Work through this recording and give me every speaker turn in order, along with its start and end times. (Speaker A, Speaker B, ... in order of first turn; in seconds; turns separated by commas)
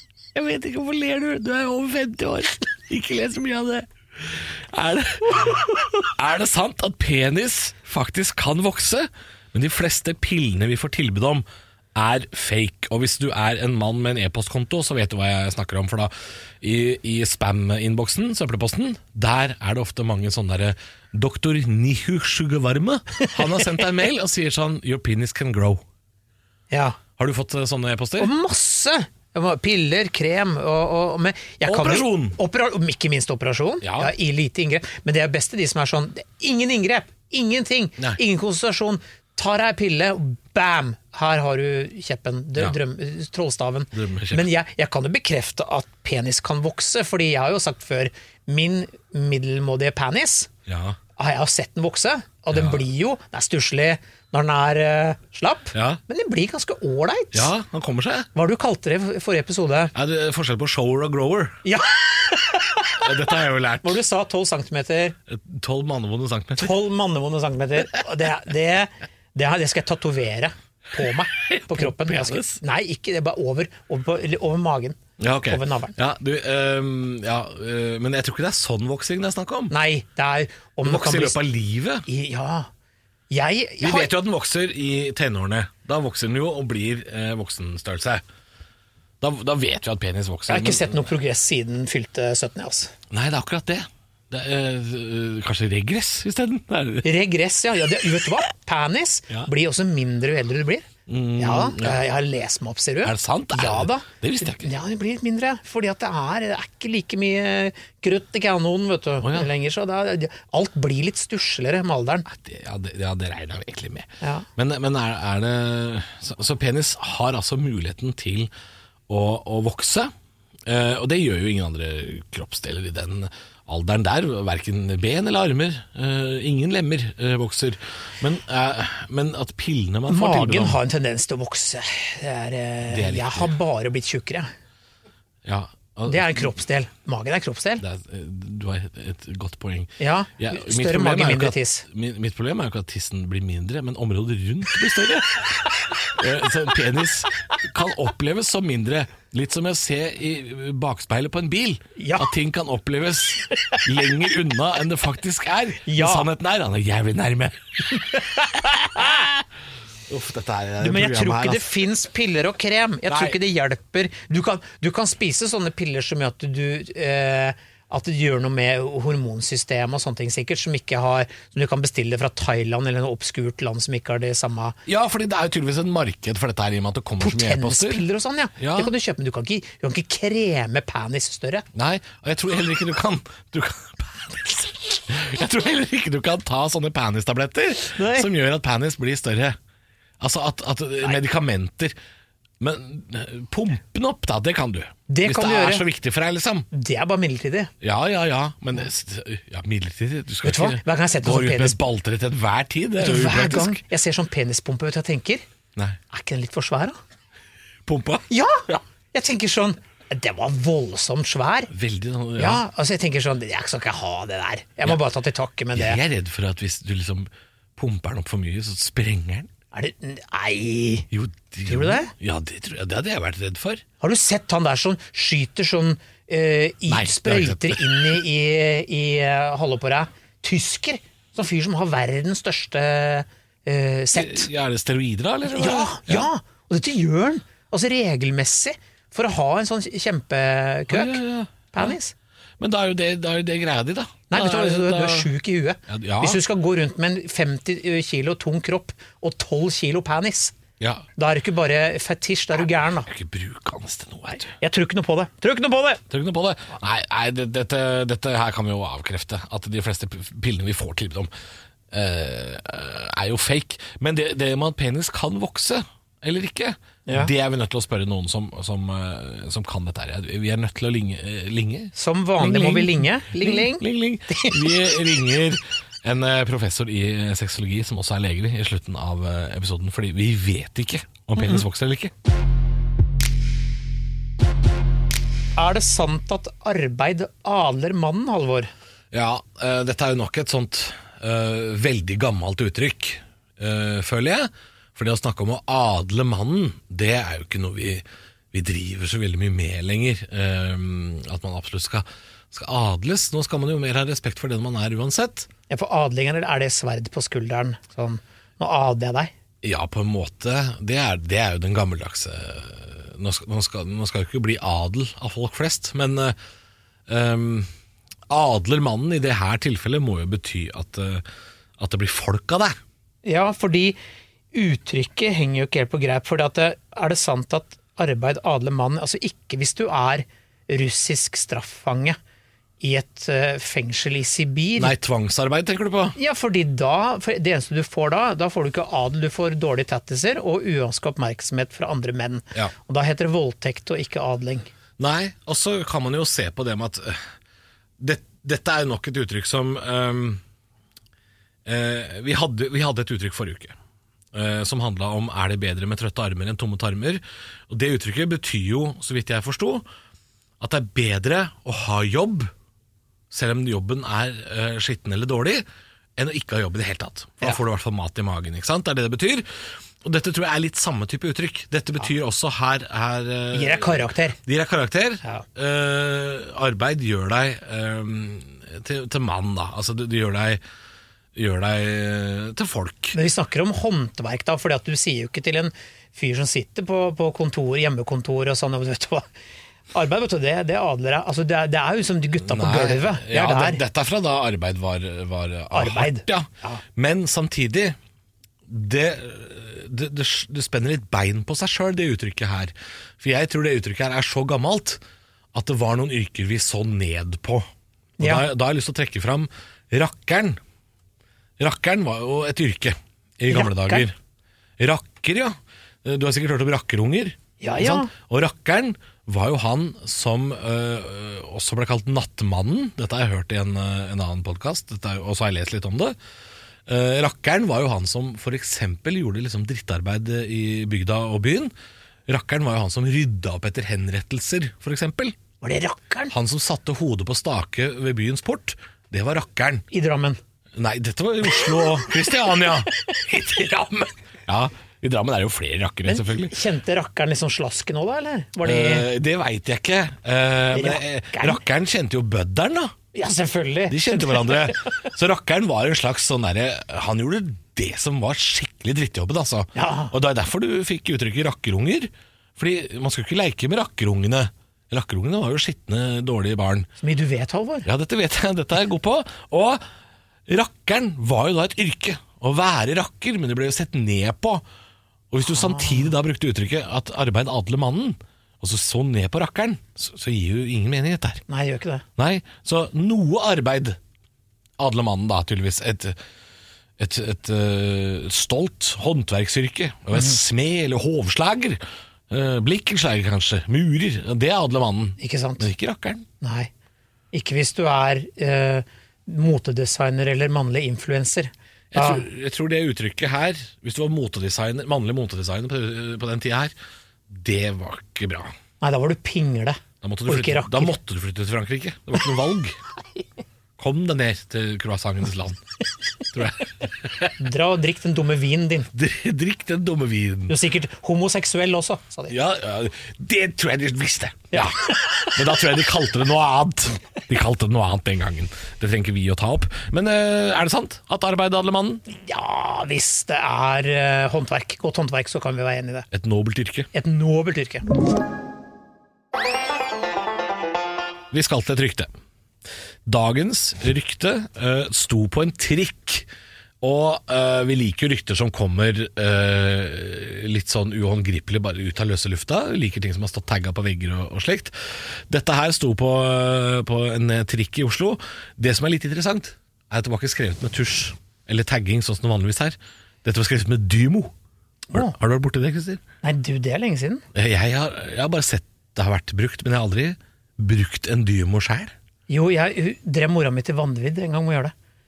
Speaker A: 0.3-25.8, Speaker B: 23.2-23.8, Speaker B: 26.7-27.0, Speaker A: 27.2-28.3, Speaker B: 28.2-50.5, Speaker A: 31.6-32.4, Speaker A: 33.8-34.1, Speaker A: 43.9-44.5, Speaker A: 50.7-51.0, Speaker B: 51.2-57.5, Speaker A: 52.5-52.8, Speaker A: 55.7-56.0, Speaker A: 57.3-58.3, Speaker B: 58.4-59.9, Speaker A: 59.9-61.6, Speaker B: 61.6-63.1, Speaker A: 63.0-64.0, Speaker B: 63.8-65.2, Speaker A: 65.3-66.8, Speaker B: 66.6-76.0, Speaker A: 71.3-72.6, Speaker A: 75.2-79.7, Speaker B: 79.7-81.4, Speaker A: 80.8-82.1, Speaker B: 82.1-82.7, Speaker B: 83.3-84.1, Speaker A: 83.8-88.2, Speaker A: 89.2-91.1, Speaker B: 90.5-92.9, Speaker A: 93.1-97.1, Speaker B: 97.0-112.3, Speaker A: 101.1-102.0, Speaker A: 103.0-104.7, Speaker A: 109.2-109.5, Speaker A: 112.3-118.5, Speaker B: 114.2-114.5, Speaker A: 119.1-120.1, Speaker A: 120.7-130.8, Speaker B: 130.1-134.5, Speaker A: 132.9-133.5, Speaker A: 135.4-136.5, Speaker B: 136.1-137.8, Speaker A: 137.8-159.4, Speaker B: 140.0-141.9, Speaker B: 152.0-152.3, Speaker B: 155.9-156.3, Speaker B: 158.3-159.2, Speaker A: 160.1-161.7, Speaker B: 160.8-174.8, Speaker A: 163.1-163.4, Speaker A: 174.9-178.1, Speaker B: 177.2-181.7, Speaker A: 178.6-178.9, Speaker A: 181.7-189.6, Speaker B: 187.9-188.3, Speaker A: 190.2-192.0, Speaker A: 192.6-196.7, Speaker B: 195.1-195.8, Speaker B: 196.7-197.7, Speaker A: 197.8-203.8, Speaker B: 200.4-201.8, Speaker B: 203.0-205.4, Speaker B: 206.1-207.0, Speaker A: 207.9-208.2, Speaker B: 208.3-211.7, Speaker A: 211.7-212.6, Speaker B: 212.4-216.0, Speaker A: 215.7-219.5, Speaker B: 219.7-221.1, Speaker A: 221.1-223.8, Speaker B: 221.7-222.1, Speaker B: 224.0-234.5, Speaker A: 226.9-228.2, Speaker A: 234.1-236.3, Speaker B: 235.5-241.2, Speaker A: 240.9-242.0, Speaker B: 241.7-242.1, Speaker A: 242.6-245.3, Speaker B: 244.3-250.6, Speaker A: 245.9-246.4, Speaker A: 250.8-251.1, Speaker B: 251.2-253.1, Speaker A: 253.1-254.5, Speaker B: 254.5-256.0, Speaker A: 256.1-261.3, Speaker A: 261.9-282.1, Speaker B: 271.9-274.8, Speaker B: 285.6-288.7, Speaker A: 289.1-305.5, Speaker B: 305.7-309.3, Speaker A: 309.6-316.4, Speaker A: 317.1-317.7, Speaker A: 318.3-321.2, Speaker A: 321.8-322.8, Speaker B: 323.2-324.0, Speaker B: 324.5-332.2, Speaker B: 332.8-334.9, Speaker A: 334.8-336.2, Speaker B: 336.2-344.7, Speaker A: 345.0-347.2, Speaker A: 348.0-350.4, Speaker A: 351.7-353.8, Speaker A: 354.3-359.9, Speaker A: 360.6-362.5, Speaker A: 363.3-365.6, Speaker A: 366.2-380.6, Speaker B: 373.5-374.4, Speaker A: 381.4-383.2, Speaker B: 383.1-389.3, Speaker B: 389.9-393.8, Speaker A: 392.4-398.0, Speaker B: 395.7-396.8, Speaker A: 398.7-405.0, Speaker A: 405.5-407.7, Speaker B: 408.2-408.4, Speaker A: 408.2-410.6, Speaker A: 411.6-414.1, Speaker B: 413.5-414.1, Speaker A: 414.8-426.1, Speaker B: 417.6-418.1, Speaker A: 426.9-431.7, Speaker A: 432.3-435.4, Speaker B: 435.6-436.3, Speaker A: 436.3-439.9, Speaker B: 439.9-440.4, Speaker A: 440.8-446.6, Speaker B: 441.6-442.3, Speaker B: 446.1-449.1, Speaker A: 448.6-452.9, Speaker B: 450.7-451.6, Speaker B: 453.1-454.9, Speaker A: 453.9-466.9, Speaker B: 459.8-460.1, Speaker B: 467.0-467.9, Speaker A: 467.9-469.8, Speaker A: 470.5-474.6, Speaker A: 475.3-481.4, Speaker B: 475.5-476.1, Speaker B: 481.5-482.1, Speaker A: 482.2-484.0, Speaker A: 484.8-486.2, Speaker A: 487.0-496.3, Speaker B: 495.2-495.7, Speaker B: 496.4-496.7, Speaker B: 497.3-502.2, Speaker A: 501.9-506.7, Speaker A: 507.3-508.5, Speaker B: 508.8-510.9, Speaker A: 510.0-512.8, Speaker A: 513.8-515.6, Speaker A: 516.3-517.3, Speaker B: 517.4-518.9, Speaker A: 518.9-520.5, Speaker B: 520.5-522.4, Speaker A: 522.3-532.0, Speaker B: 524.5-525.4, Speaker B: 532.1-536.1, Speaker A: 536.1-536.9, Speaker B: 536.9-537.9, Speaker A: 541.3-542.1, Speaker A: 543.1-546.3, Speaker A: 546.8-564.3, Speaker B: 564.9-565.2, Speaker A: 564.9-566.0, Speaker B: 566.2-567.2, Speaker A: 567.3-571.9, Speaker B: 572.3-574.7